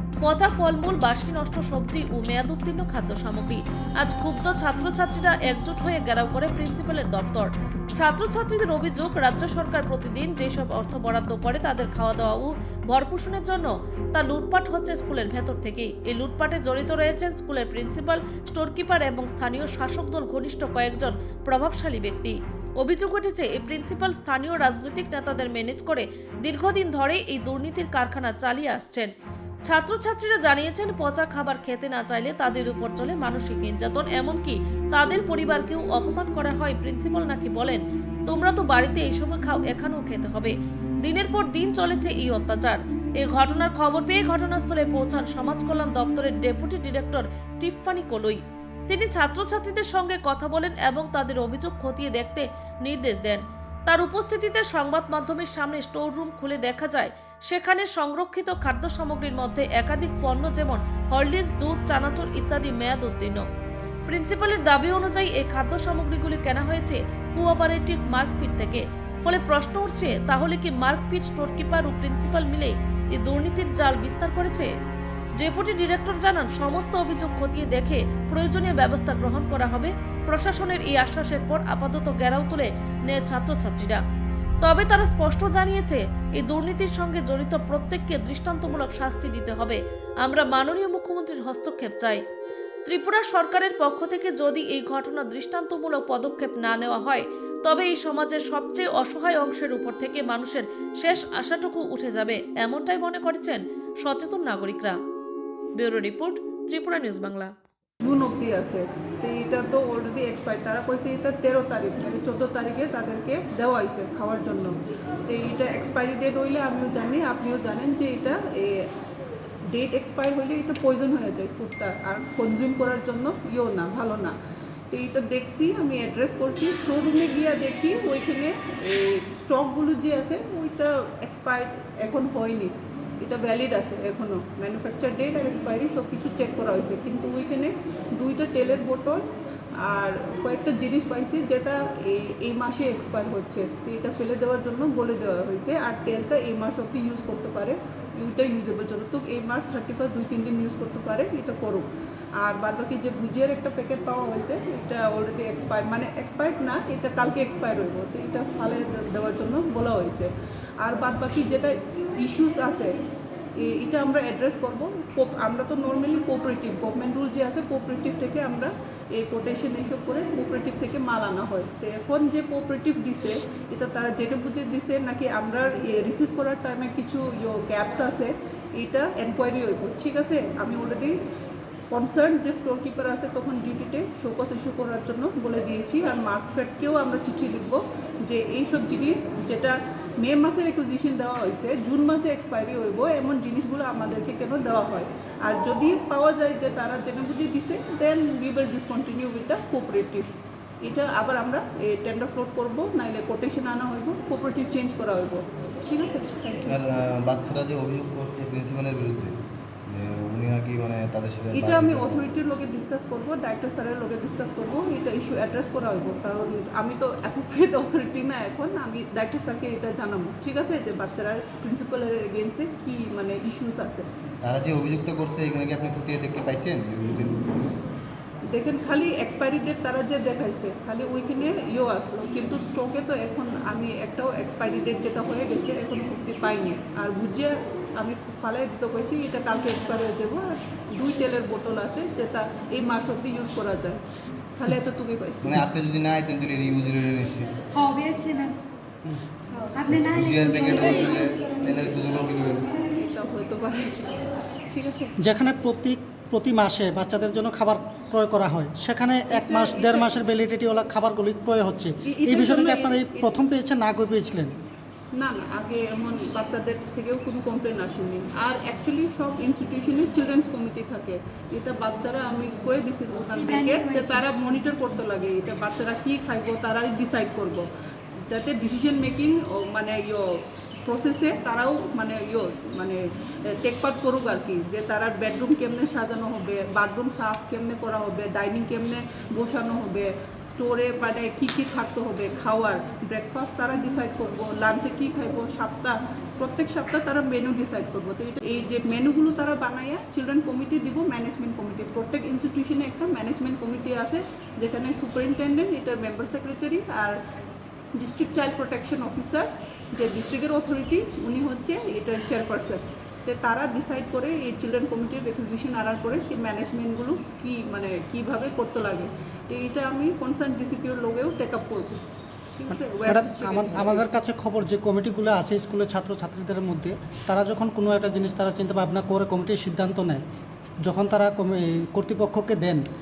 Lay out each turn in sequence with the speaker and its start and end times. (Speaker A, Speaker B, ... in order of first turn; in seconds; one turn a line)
Speaker A: 0.2-29.1
Speaker A: 29.6-63.4
Speaker A: 64.1-74.7
Speaker A: 75.4-84.0
Speaker A: 84.6-92.2
Speaker A: 92.8-105.0
Speaker A: 105.8-107.5
Speaker B: 108.0-114.7
Speaker B: 115.3-118.9
Speaker B: 119.7-124.3
Speaker B: 124.9-139.2
Speaker B: 139.8-151.9
Speaker B: 152.4-163.0
Speaker B: 163.6-181.1
Speaker B: 181.9-200.3
Speaker B: 200.8-206.7
Speaker C: 206.7-212.2
Speaker B: 211.5-224.1
Speaker C: 224.4-227.7
Speaker B: 228.5-244.0
Speaker B: 244.6-245.7
Speaker C: 245.4-247.5
Speaker D: 247.7-248.6
Speaker D: 249.7-251.6
Speaker C: 249.8-252.8
Speaker B: 253.0-253.9
Speaker B: 254.7-255.1
Speaker E: 255.2-264.5
Speaker B: 259.3-260.1
Speaker B: 262.1-263.4
Speaker B: 265.2-277.6
Speaker D: 273.3-274.2
Speaker B: 278.3-280.2
Speaker B: 280.9-283.0
Speaker B: 283.6-307.2
Speaker B: 308.0-322.0
Speaker B: 322.5-324.0
Speaker E: 323.0-330.2
Speaker E: 330.8-332.8